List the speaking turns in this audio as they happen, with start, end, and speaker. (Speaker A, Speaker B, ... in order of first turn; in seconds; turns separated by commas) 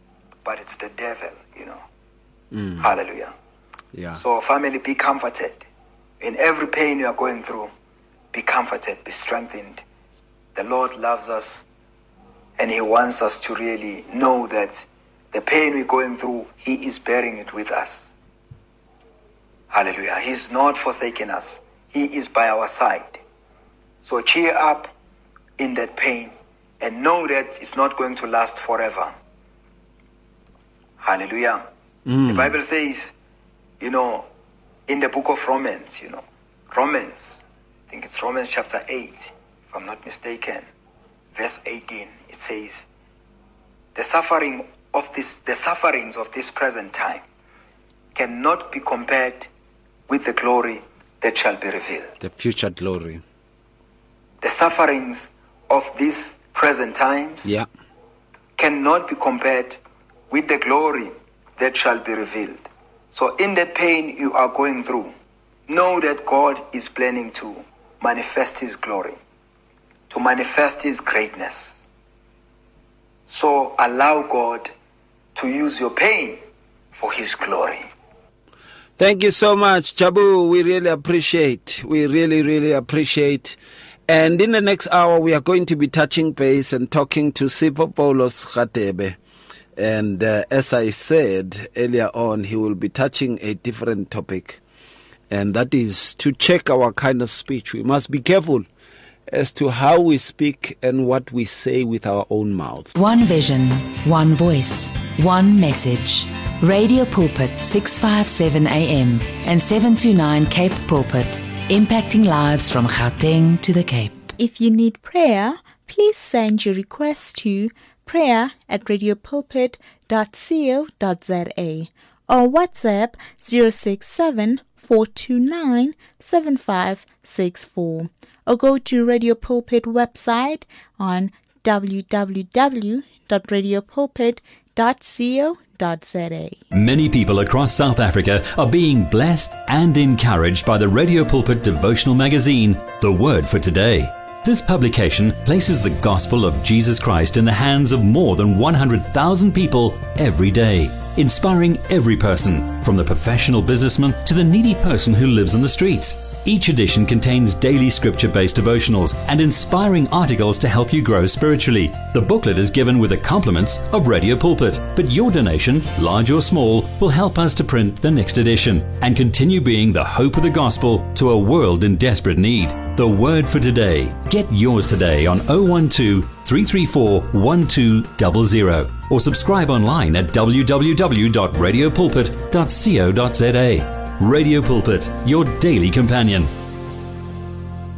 Speaker A: 0.4-1.8, Speaker B: 2.5-2.9, Speaker A: 2.8-3.3, Speaker B: 3.9-4.2, Speaker A: 4.2-5.7, Speaker A: 6.2-7.7, Speaker A: 8.3-9.8, Speaker A: 10.5-11.6, Speaker A: 12.6-18.1, Speaker A: 19.7-23.2, Speaker A: 24.0-24.9, Speaker A: 25.6-29.1, Speaker A: 31.0-31.6, Speaker B: 32.1-32.5, Speaker A: 32.2-33.1, Speaker A: 33.8-34.2, Speaker A: 34.9-40.6, Speaker A: 41.3-42.9, Speaker A: 43.9-47.2, Speaker A: 48.1-49.5, Speaker A: 50.1-52.1, Speaker B: 52.2-53.2, Speaker A: 54.4-57.5, Speaker A: 58.6-59.8, Speaker A: 60.3-65.1, Speaker A: 65.7-69.2, Speaker A: 70.1-71.8, Speaker A: 73.3-74.7, Speaker A: 75.3-76.4, Speaker A: 77.0-77.9, Speaker B: 79.0-89.2, Speaker B: 89.8-94.6, Speaker B: 95.3-98.7, Speaker B: 99.3-102.9, Speaker C: 102.9-114.3, Speaker D: 114.4-136.6, Speaker E: 136.7-186.5